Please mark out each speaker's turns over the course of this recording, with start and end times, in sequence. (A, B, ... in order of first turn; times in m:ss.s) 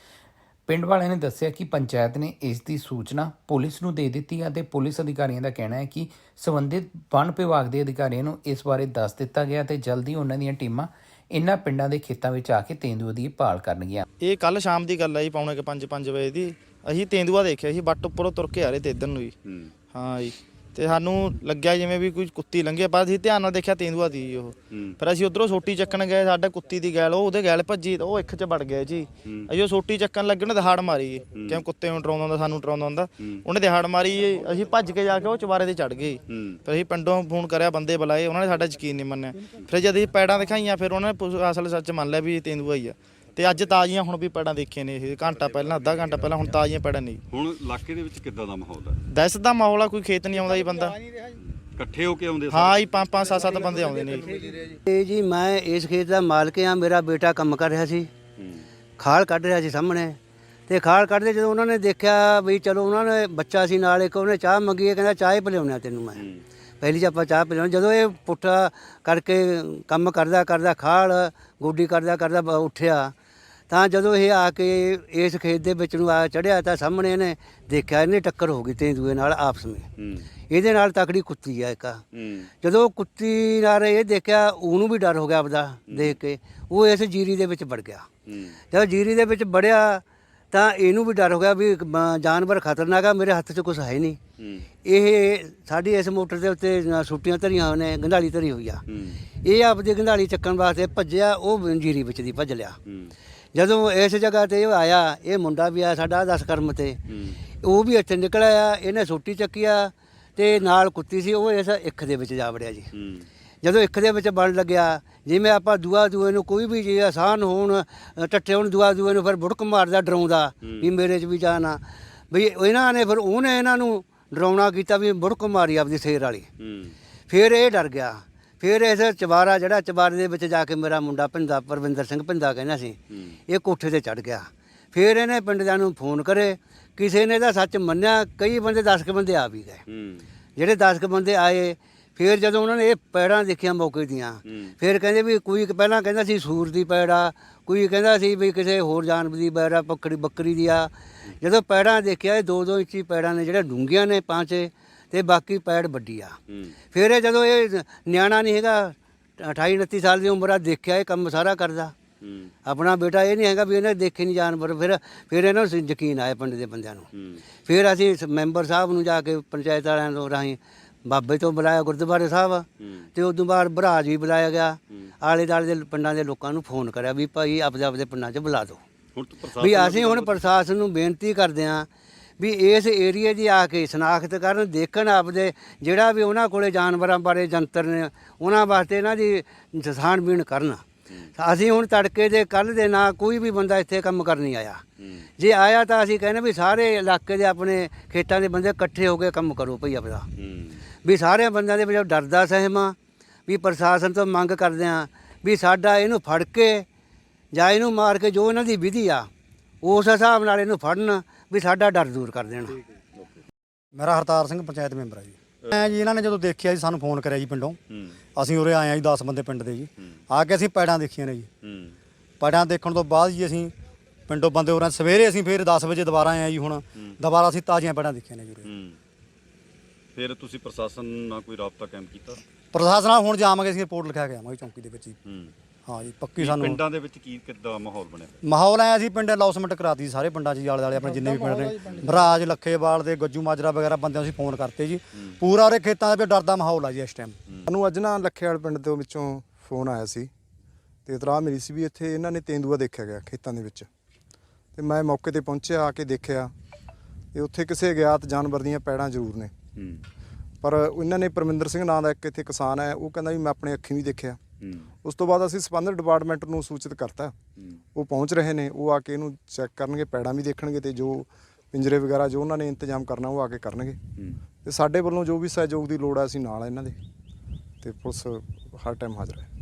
0:00.7-0:14.0 A
0:14.2-0:19.4 B
0:19.4-0:19.7 C
0:19.9-0:47.2 B
0:24.7-0:25.0 C
0:29.2-0:29.5 C
0:31.3-0:31.6 C
0:36.3-0:36.6 C
0:47.3-0:49.0 C
0:49.1-0:51.0 B
0:51.8-0:52.8 C
0:52.5-0:54.3 B
0:54.9-0:58.1 D
0:58.4-0:58.7 C
0:59.0-1:00.2 D
1:00.7-1:06.3 D
1:06.2-1:06.4 C
1:06.8-1:13.1 D
1:13.7-1:19.9 D
1:20.0-1:20.3 C
1:20.5-1:22.0 D
1:22.1-1:22.5 C
1:22.6-1:28.1 D
1:25.9-1:26.2 C
1:28.3-1:28.6 C
1:28.7-1:34.2 D
1:34.4-1:34.7 C
1:34.8-1:38.8 D
1:38.9-1:39.3 C
1:39.4-1:42.8 D
1:42.9-1:43.2 C
1:43.6-1:47.0 D
1:47.1-1:47.4 C
1:47.6-1:52.9 D
1:52.9-1:53.3 C
1:53.6-2:06.5 D
2:00.6-2:00.9 C
2:06.6-2:07.0 C
2:07.3-2:19.8 D
2:13.1-2:13.4 C
2:19.9-2:20.3 C
2:20.6-2:36.4 D
2:24.5-2:24.8 C
2:36.5-2:36.8 C
2:36.9-2:41.9 D
2:42.2-2:42.5 C
2:42.7-2:47.1 D
2:47.1-2:47.5 C
2:47.6-2:58.8 D
2:52.8-2:53.1 C
2:59.1-3:00.6 C
2:59.6-3:01.9 D
3:02.4-3:10.8 D
3:11.4-3:14.8 D
3:15.0-3:15.3 C
3:15.4-3:20.3 D
3:20.4-3:20.9 C
3:21.0-3:23.0 D
3:23.5-3:26.9 D
3:27.5-3:29.3 D
3:29.8-3:32.8 D
3:33.2-3:33.4 C
3:33.9-3:37.8 E
3:35.6-3:35.9 C
3:37.9-3:38.2 C
3:38.4-3:41.5 E
3:41.6-3:42.0 C
3:42.4-3:43.7 E
3:44.3-3:48.7 E
3:48.6-3:49.0 C
3:50.2-3:52.4 C
3:52.7-3:55.2 E
3:55.2-3:55.5 C
3:55.9-3:56.8 E
3:56.4-3:58.4 C
3:58.4-4:07.4 E
4:07.7-4:10.3 F
4:11.1-4:13.9 F
4:14.8-4:16.5 F
4:17.3-4:19.5 F
4:19.8-4:20.0 C
4:20.6-4:24.4 F
4:24.6-4:24.9 C
4:25.0-4:27.3 F
4:28.0-4:34.0 F
4:34.6-4:37.0 F
4:37.8-4:39.5 F